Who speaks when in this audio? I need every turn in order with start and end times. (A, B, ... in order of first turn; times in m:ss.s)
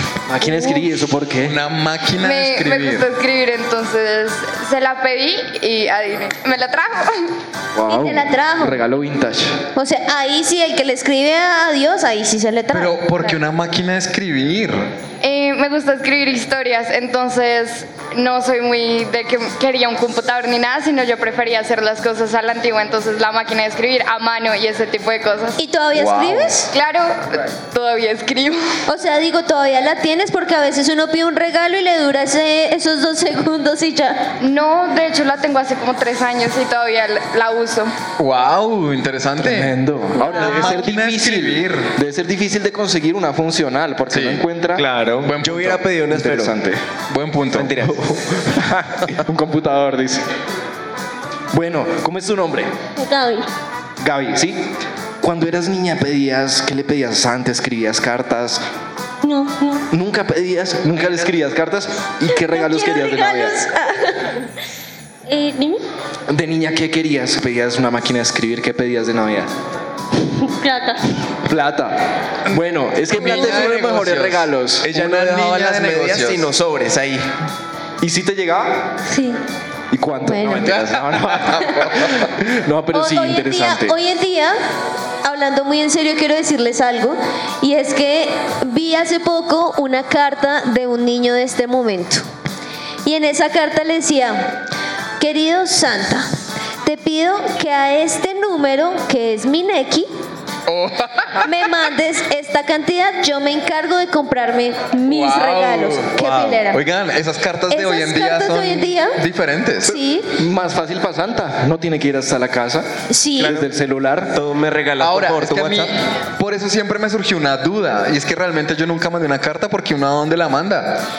0:00.3-0:01.6 A
0:00.4-0:00.8 B
0:01.4-0:03.1 C
0:02.2-0:07.3 D
0:07.7-0:09.6 A
0:07.9-0:08.8 B
0:09.8-0:12.9 B
0:12.7-0:14.8 C
0:15.2-0:25.6 D
0:25.6-0:26.7 B
0:25.9-0:26.6 C
0:26.7-0:28.7 D
0:28.9-0:34.3 B
0:34.4-0:37.9 D
0:38.2-0:41.9 C
0:39.4-0:44.8 A
0:44.1-0:44.4 C
0:44.8-0:46.5 E
0:45.2-0:45.8 C
0:46.1-0:46.8 A
0:47.1-0:47.8 C
0:47.5-0:47.9 E
0:48.0-0:50.2 A
0:51.5-0:52.7 A
0:53.0-0:53.4 B
0:54.0-0:54.6 A
0:55.2-0:58.6 A
0:59.2-0:59.8 B
0:59.9-1:03.6 A
1:02.3-1:04.4 B
1:05.3-1:05.8 B
1:06.3-1:09.5 A
1:10.5-1:11.0 B
1:11.4-1:12.0 A
1:12.5-1:14.9 A
1:13.1-1:16.5 C
1:14.8-1:17.2 E
1:18.0-1:18.8 A
1:19.1-1:19.4 B
1:19.9-1:24.0 A
1:20.2-1:20.7 B
1:20.7-1:22.2 C
1:22.9-1:24.6 B
1:25.2-1:32.2 B
1:33.0-1:34.6 B
1:35.2-1:36.3 B
1:36.8-1:40.1 B
1:40.7-1:41.5 C
1:41.4-1:46.8 B
1:45.0-1:50.0 C
1:47.7-1:49.2 B
1:49.8-1:50.3 B
1:50.4-1:52.9 A
1:53.1-1:53.5 B
1:53.4-1:54.3 A
1:53.4-1:53.7 E
1:54.3-1:55.9 E
1:55.0-2:01.0 C